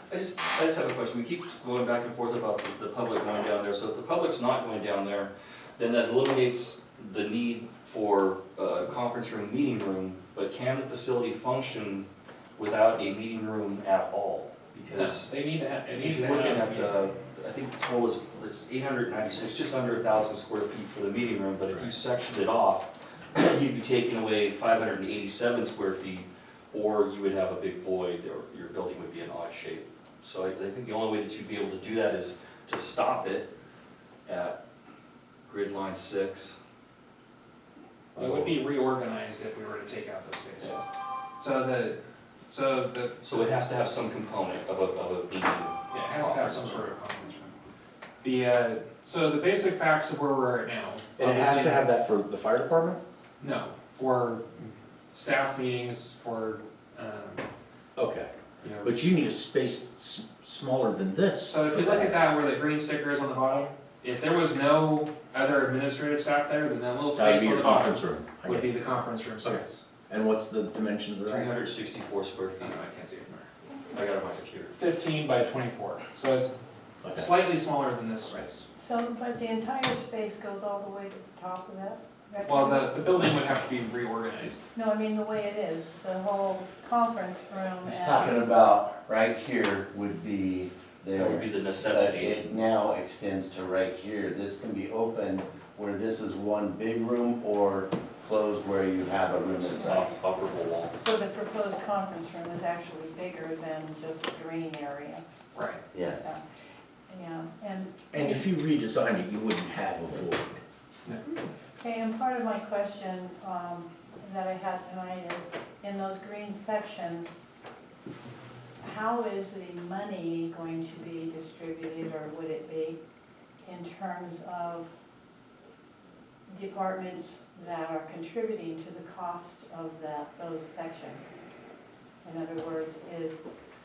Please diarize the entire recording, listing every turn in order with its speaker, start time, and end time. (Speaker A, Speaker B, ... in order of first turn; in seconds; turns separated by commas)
Speaker A: 0.1-15.3, Speaker B: 14.9-17.0, Speaker A: 15.9-33.5, Speaker A: 34.2-34.6, Speaker A: 35.5-36.5, Speaker B: 38.1-43.7, Speaker A: 38.1-38.6, Speaker A: 43.2-46.9, Speaker B: 45.9-47.5, Speaker B: 48.2-51.9, Speaker C: 51.1-53.0, Speaker B: 53.4-57.5, Speaker C: 58.0-58.3, Speaker B: 58.6-58.9, Speaker C: 58.8-62.1, Speaker B: 61.5-69.8, Speaker C: 67.1-68.7, Speaker C: 69.4-71.5, Speaker A: 71.3-72.8, Speaker B: 72.6-73.5, Speaker A: 73.9-74.8, Speaker B: 74.7-76.5, Speaker C: 77.0-77.3, Speaker B: 77.1-78.6, Speaker D: 78.7-83.0, Speaker B: 82.4-84.6, Speaker D: 84.7-88.4, Speaker E: 87.8-99.8, Speaker A: 91.1-92.6, Speaker A: 99.6-100.9, Speaker D: 99.7-100.2, Speaker D: 101.0-105.2, Speaker B: 105.5-105.8, Speaker E: 105.9-106.2, Speaker D: 106.0-106.4, Speaker D: 107.1-108.4, Speaker C: 108.1-110.6, Speaker B: 111.0-111.3, Speaker D: 111.8-117.3, Speaker D: 118.8-123.0, Speaker D: 123.6-124.9, Speaker D: 126.5-131.3, Speaker D: 132.2-133.4